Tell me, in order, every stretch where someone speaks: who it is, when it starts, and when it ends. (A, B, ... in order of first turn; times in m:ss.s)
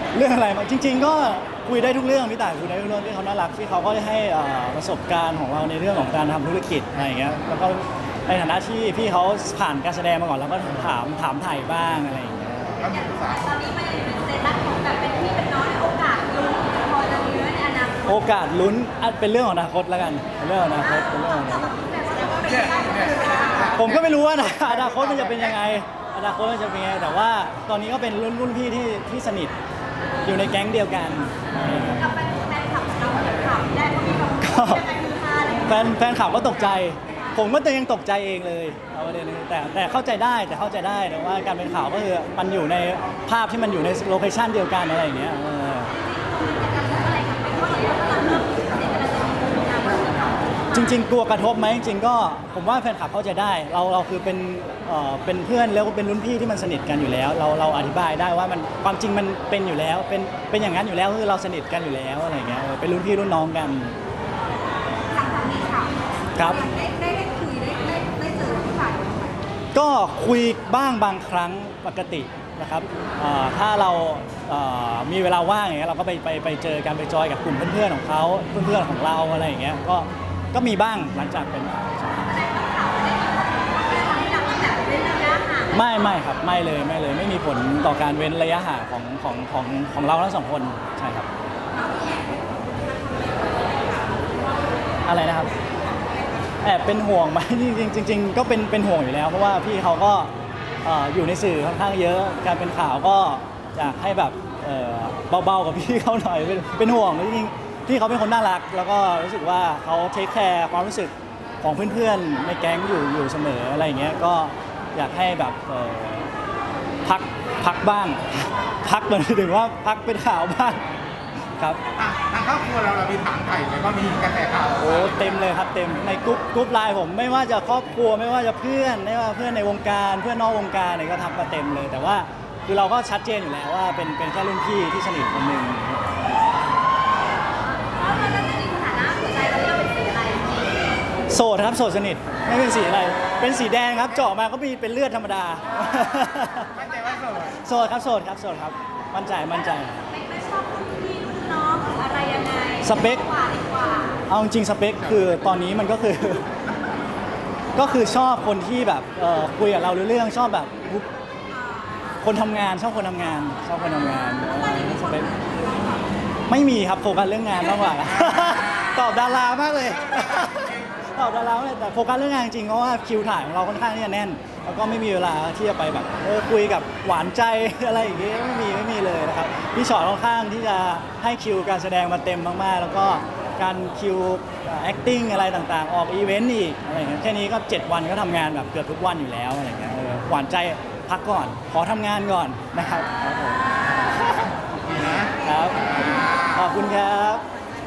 0:00.1-0:12.7 A
0:12.6-0:13.4 B
0:12.8-0:18.2 C
0:18.0-0:21.8 A
0:20.8-0:23.8 C
0:22.5-0:25.6 B
0:23.7-0:29.6 A
0:30.2-0:32.2 A
0:32.0-0:36.0 C
0:34.4-0:34.9 A
0:35.7-0:45.9 A
0:45.9-0:51.0 C
0:50.7-1:04.0 A
1:05.1-1:09.4 C
1:06.4-1:06.6 A
1:09.7-1:22.4 A
1:22.2-1:26.1 C
1:25.7-1:31.3 A
1:31.7-1:34.2 C
1:35.0-1:35.5 A
1:36.6-1:40.3 A
1:40.8-1:56.3 A
1:57.0-2:00.9 A
2:01.6-2:01.8 A
2:01.9-2:05.2 B
2:04.8-2:16.4 A
2:17.7-2:20.9 C
2:21.3-2:26.8 A
2:26.7-2:27.6 B
2:27.6-2:30.0 A
2:29.5-2:34.2 C
2:32.8-2:33.3 A
2:34.3-2:36.5 A
2:37.8-2:41.1 A
2:41.5-2:42.3 C
2:42.2-2:45.3 A
2:43.6-2:46.3 C
2:46.5-3:13.6 A
2:50.2-2:50.7 B
3:14.9-3:15.4 B
3:15.4-3:17.4 A